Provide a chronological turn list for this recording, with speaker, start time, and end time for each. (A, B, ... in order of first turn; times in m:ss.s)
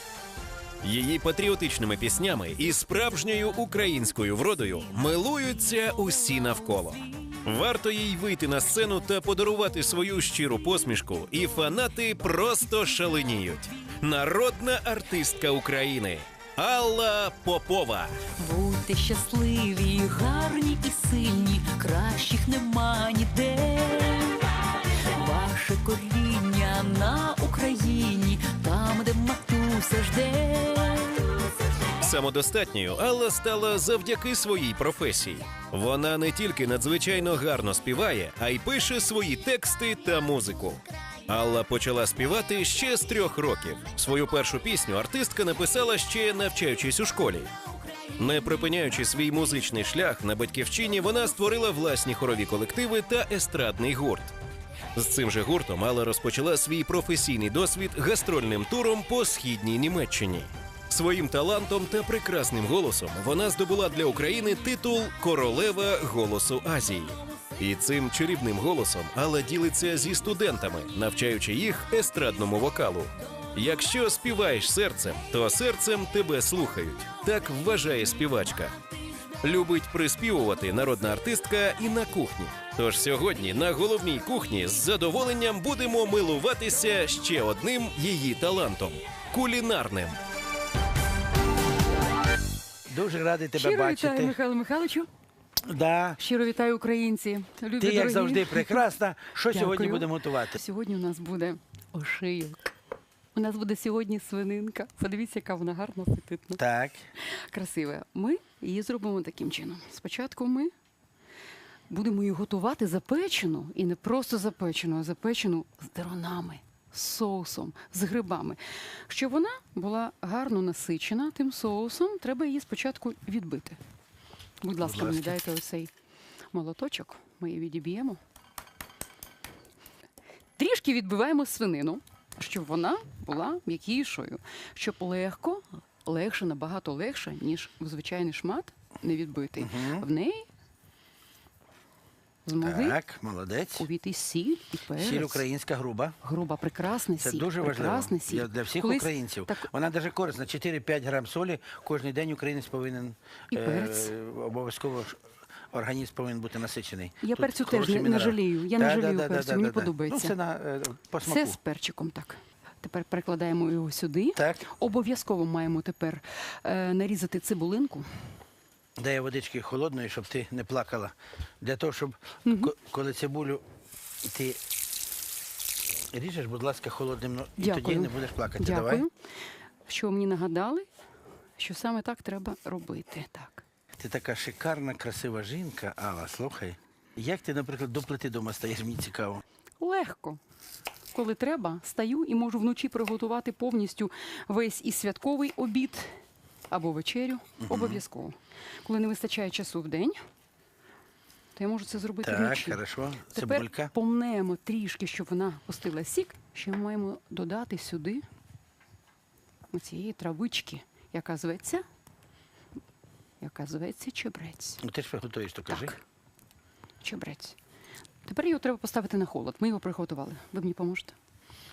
0:00.8-0:18.3 A
0:18.3-0:31.5 B
0:31.9-0:47.5 A
0:48.2-0:54.3 A
0:55.0-1:18.8 A
1:19.4-1:30.2 A
1:32.9-1:34.4 C
1:33.6-1:35.1 D
1:35.6-1:36.2 C
1:36.2-1:38.8 D
1:37.8-1:40.6 C
1:39.5-1:42.7 D
1:43.4-1:46.6 D
1:46.6-1:47.1 C
1:47.2-1:50.7 D
1:51.9-2:03.8 D
2:04.6-2:05.9 D
2:04.8-2:05.4 C
2:06.5-2:08.2 D
2:10.6-2:20.5 D
2:19.6-2:20.1 C
2:22.4-2:23.0 D
2:22.6-2:23.9 C
2:23.8-2:25.4 D
2:25.0-2:26.2 C
2:26.2-2:29.7 D
2:27.2-2:41.6 C
2:33.5-2:34.1 D
2:37.2-2:40.3 D
2:41.2-2:48.3 D
2:44.4-2:44.6 C
2:49.0-2:53.6 C
2:52.4-2:52.7 D
2:54.2-2:54.6 C
2:56.1-2:59.0 C
2:57.6-2:59.1 D
2:59.9-3:00.9 D
3:01.6-3:03.6 D
3:04.0-3:09.4 C
3:09.8-3:10.4 D
3:11.1-3:16.2 D
3:16.7-3:20.2 D
3:17.6-3:18.0 C
3:21.6-3:22.8 D
3:22.2-3:23.9 C
3:23.3-3:28.2 D
3:29.7-3:31.8 D
3:33.4-3:34.8 D
3:34.8-3:36.0 C
3:35.7-3:36.0 D
3:37.0-3:37.6 D
3:38.3-3:41.2 D